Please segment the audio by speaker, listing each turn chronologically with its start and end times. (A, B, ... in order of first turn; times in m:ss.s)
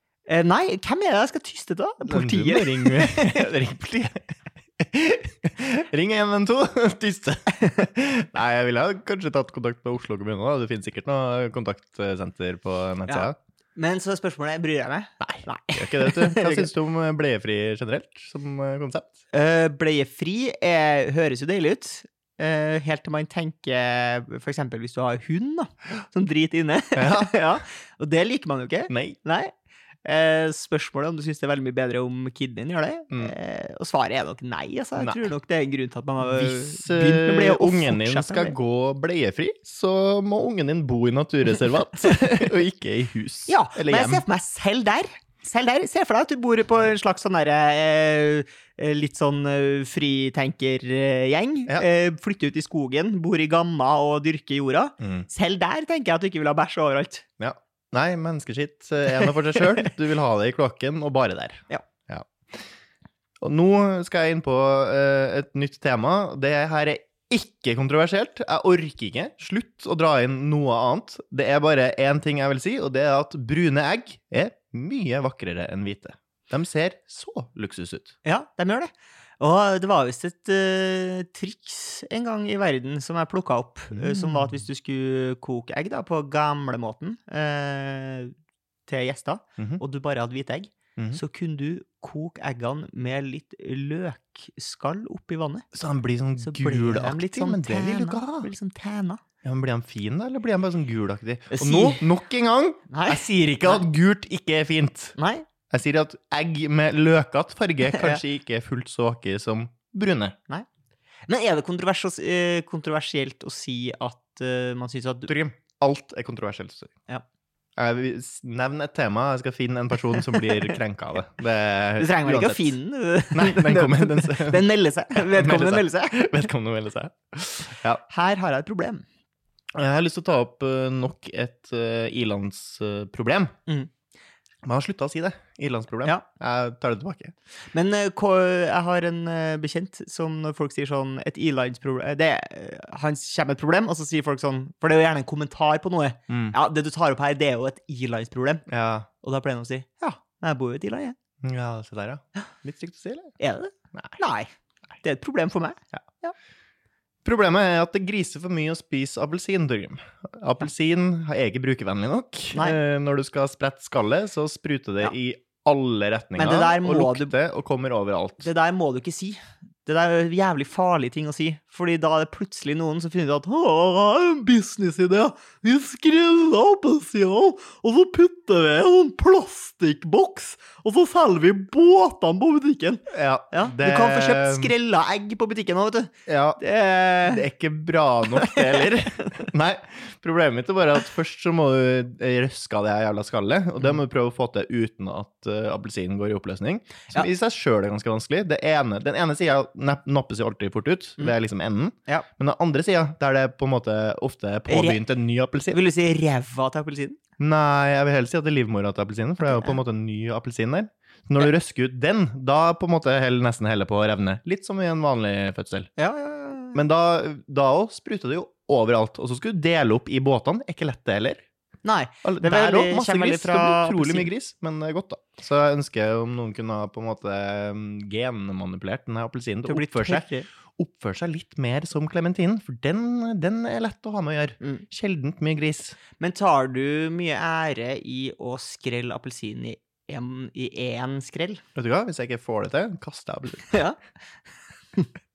0:00.3-0:03.5 A
0:02.0-0:13.4 B
0:13.1-0:16.7 A
0:15.2-0:19.2 B
0:19.3-0:29.5 A
0:27.0-0:27.3 B
0:28.9-0:29.2 B
0:30.0-0:38.6 A
0:35.0-0:35.3 B
0:36.2-0:44.2 B
0:43.5-0:57.2 A
0:55.0-0:55.3 B
0:57.4-1:02.3 B
1:03.4-1:18.2 B
1:18.2-1:28.3 A
1:23.9-1:24.6 B
1:28.9-1:35.6 A
1:31.0-1:31.2 B
1:35.7-1:38.5 B
1:36.4-1:39.2 A
1:39.4-1:45.2 B
1:41.5-1:42.1 A
1:42.9-1:43.8 A
1:45.2-1:45.4 A
1:45.7-1:50.4 B
1:47.9-1:48.2 A
1:51.3-1:55.3 A
1:55.3-1:56.9 B
1:57.8-2:02.8 B
2:00.1-2:00.8 A
2:02.0-2:06.5 A
2:03.3-2:08.0 B
2:08.1-2:09.0 A
2:09.8-2:13.5 B
2:14.6-2:17.3 B
2:17.7-2:28.6 A
2:26.3-2:26.6 B
2:28.7-2:29.1 B
2:29.2-2:31.2 A
2:31.4-2:33.3 B
2:33.4-2:34.5 A
2:35.0-2:36.3 A
2:37.2-2:48.5 B
2:42.5-2:42.8 A
2:46.4-2:47.3 A
2:48.4-3:07.5 A
3:03.1-3:04.7 B
3:06.3-3:06.6 B
3:07.2-3:25.8 B
3:08.4-3:09.4 A
3:24.7-3:25.0 A
3:25.7-3:27.2 A
3:27.4-3:35.9 B
3:29.4-3:29.8 A
3:36.0-3:36.8 A
3:36.7-3:41.4 B
3:41.8-3:44.3 A
3:42.2-3:56.0 B
3:49.7-3:50.5 A
3:56.2-4:01.6 A
4:01.8-4:03.8 B
4:03.7-4:04.0 A